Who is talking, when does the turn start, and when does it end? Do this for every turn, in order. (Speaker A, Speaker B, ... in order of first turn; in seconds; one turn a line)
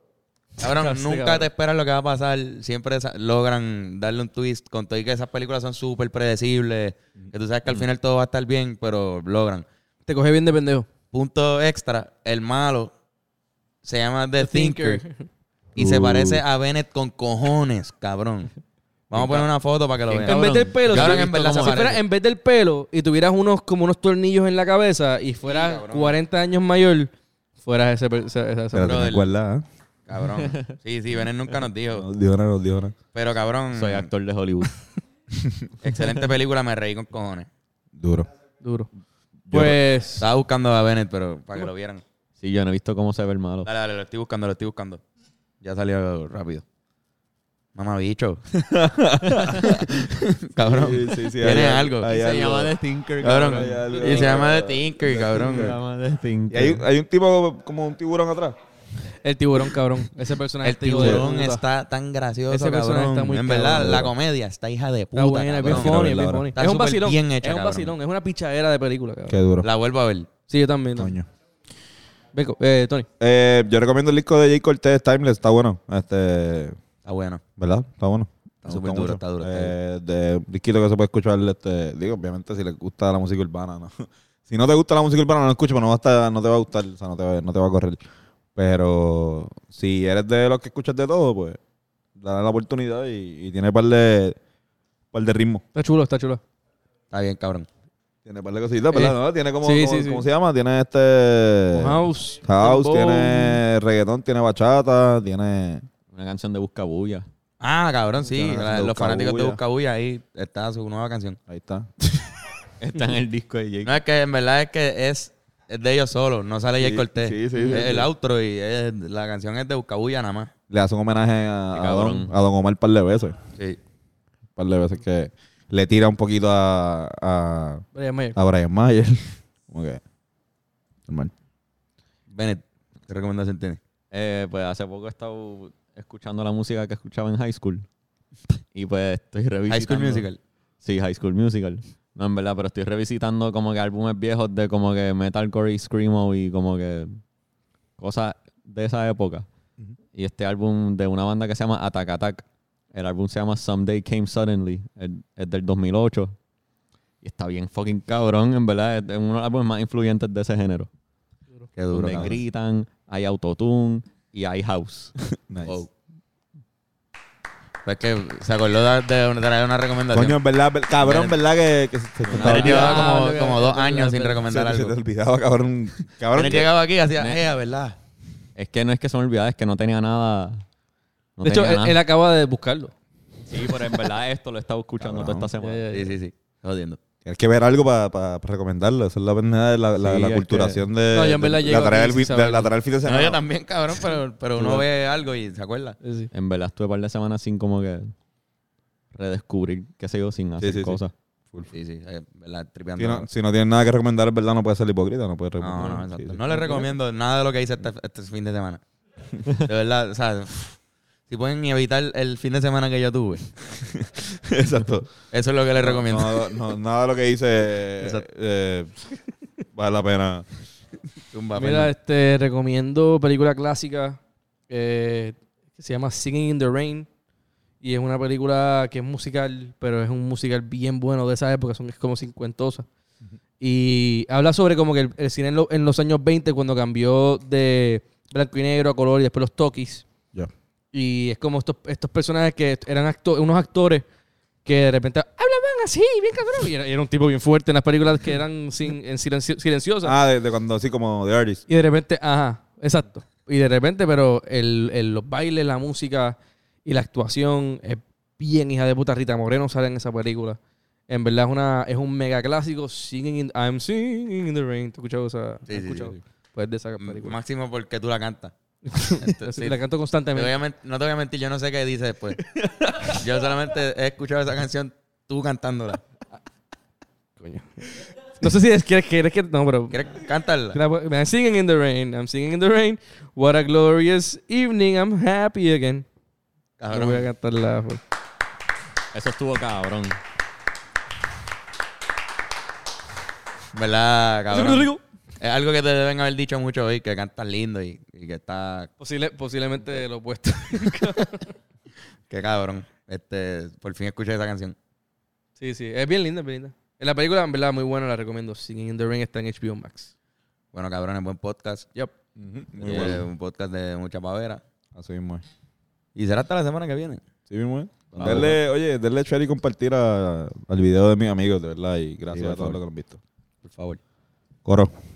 Speaker A: 0.6-9.6
Speaker B: 0.6-1.5
Speaker B: 10.1-10.9
Speaker A: 11.1-12.9
Speaker A: 13.8-15.0
Speaker B: 14.4-15.2
Speaker A: 15.8-18.5
Speaker C: 15.8-16.4
Speaker A: 19.1-22.0
Speaker D: 19.1-19.5
Speaker D: 20.1-21.8
Speaker B: 20.3-29.1
Speaker A: 25.4-26.2
Speaker C: 28.7-29.6
Speaker A: 28.8-29.3
Speaker A: 30.1-32.1
Speaker D: 30.4-30.6
Speaker C: 31.9-33.0
Speaker A: 33.1-34.1
Speaker D: 33.7-34.7
Speaker C: 35.4-35.7
Speaker A: 35.8-37.5
Speaker D: 35.9-36.2
Speaker C: 38.0-38.3
Speaker B: 38.6-38.9
Speaker C: 39.5-39.8
Speaker B: 39.5-40.3
Speaker A: 40.2-42.0
Speaker D: 42.4-43.7
Speaker A: 43.6-45.0
Speaker A: 45.6-46.6
Speaker A: 47.8-48.4
Speaker C: 48.5-49.9
Speaker D: 49.3-49.7
Speaker A: 49.6-52.1
Speaker C: 50.6-52.8
Speaker D: 52.0-54.6
Speaker A: 53.2-55.8
Speaker C: 53.5-55.8
Speaker D: 55.3-56.8
Speaker C: 56.5-58.6
Speaker B: 59.2-61.6
Speaker A: 60.6-66.0
Speaker C: 61.0-61.2
Speaker B: 62.5-64.1
Speaker C: 63.7-64.1
Speaker B: 65.1-69.4
Speaker C: 65.6-66.5
Speaker A: 66.6-67.9
Speaker C: 69.3-69.7
Speaker A: 69.6-70.3
Speaker B: 70.5-71.2
Speaker C: 71.0-71.3
Speaker B: 72.3-73.1
Speaker C: 73.2-76.8
Speaker A: 77.0-77.4
Speaker C: 77.6-88.0
Speaker A: 78.6-79.7
Speaker C: 88.6-91.6
Speaker C: 92.2-94.4
Speaker C: 95.1-95.6
Speaker B: 95.7-96.4
Speaker A: 97.1-97.7
Speaker C: 98.2-105.8
Speaker B: 98.9-100.2
Speaker B: 101.7-103.6
Speaker D: 106.1-107.3
Speaker A: 107.6-111.4
Speaker C: 108.3-109.6
Speaker C: 111.5-112.3
Speaker D: 112.8-113.9
Speaker A: 113.8-120.5
Speaker C: 116.8-118.1
Speaker C: 120.7-123.4
Speaker D: 121.7-122.3
Speaker C: 124.6-130.0
Speaker B: 127.9-128.4
Speaker A: 132.3-133.8
Speaker D: 134.1-137.9
Speaker D: 138.7-140.3
Speaker A: 139.7-140.4
Speaker D: 140.8-147.2
Speaker D: 148.0-149.5
Speaker D: 150.1-156.4
Speaker D: 157.2-160.9
Speaker A: 161.8-162.4
Speaker D: 161.9-165.1
Speaker C: 162.1-162.4
Speaker C: 165.5-165.8
Speaker A: 167.8-170.4
Speaker C: 170.1-173.1
Speaker A: 171.0-171.3
Speaker D: 172.2-174.5
Speaker A: 172.3-175.0
Speaker C: 174.4-176.7
Speaker A: 176.3-178.0
Speaker D: 178.6-180.6
Speaker D: 181.4-182.0
Speaker B: 181.4-182.9
Speaker D: 183.5-185.8
Speaker C: 185.0-185.5
Speaker B: 185.6-186.2
Speaker A: 185.9-187.0
Speaker C: 187.2-193.4
Speaker D: 190.0-190.8
Speaker B: 191.1-192.7
Speaker A: 193.0-196.0
Speaker C: 194.6-194.8
Speaker B: 196.0-196.3
Speaker D: 196.3-198.1
Speaker D: 199.1-201.1
Speaker C: 200.6-201.0
Speaker A: 201.7-203.3
Speaker C: 203.0-206.9
Speaker A: 205.6-208.8
Speaker A: 209.5-210.8
Speaker A: 211.3-213.6
Speaker C: 213.8-215.1
Speaker A: 215.3-216.6
Speaker C: 215.8-218.9
Speaker A: 218.0-218.2
Speaker C: 219.7-220.5
Speaker A: 221.3-221.9
Speaker B: 221.6-227.1
Speaker B: 227.8-232.9
Speaker B: 233.6-240.1
Speaker B: 240.9-244.1
Speaker B: 244.6-250.2
Speaker C: 250.0-251.6
Speaker B: 251.7-267.4
Speaker A: 265.7-266.1
Speaker A: 267.0-268.5
Speaker B: 268.9-270.5
Speaker A: 269.1-269.8
Speaker A: 270.3-272.4
Speaker A: 273.0-276.0
Speaker B: 277.4-280.0
Speaker A: 279.9-280.8
Speaker B: 280.7-286.1
Speaker A: 286.8-287.3
Speaker B: 286.9-288.0
Speaker D: 289.1-290.2
Speaker A: 293.7-298.9
Speaker B: 294.5-295.0
Speaker B: 299.0-301.5
Speaker A: 302.3-304.8
Speaker B: 305.6-310.1
Speaker A: 310.7-311.9
Speaker C: 312.4-313.3
Speaker A: 312.8-314.6
Speaker C: 314.9-315.4
Speaker A: 316.2-317.2
Speaker C: 317.5-323.2
Speaker A: 318.1-318.6
Speaker A: 322.3-322.8
Speaker A: 323.6-324.0
Speaker C: 324.6-324.9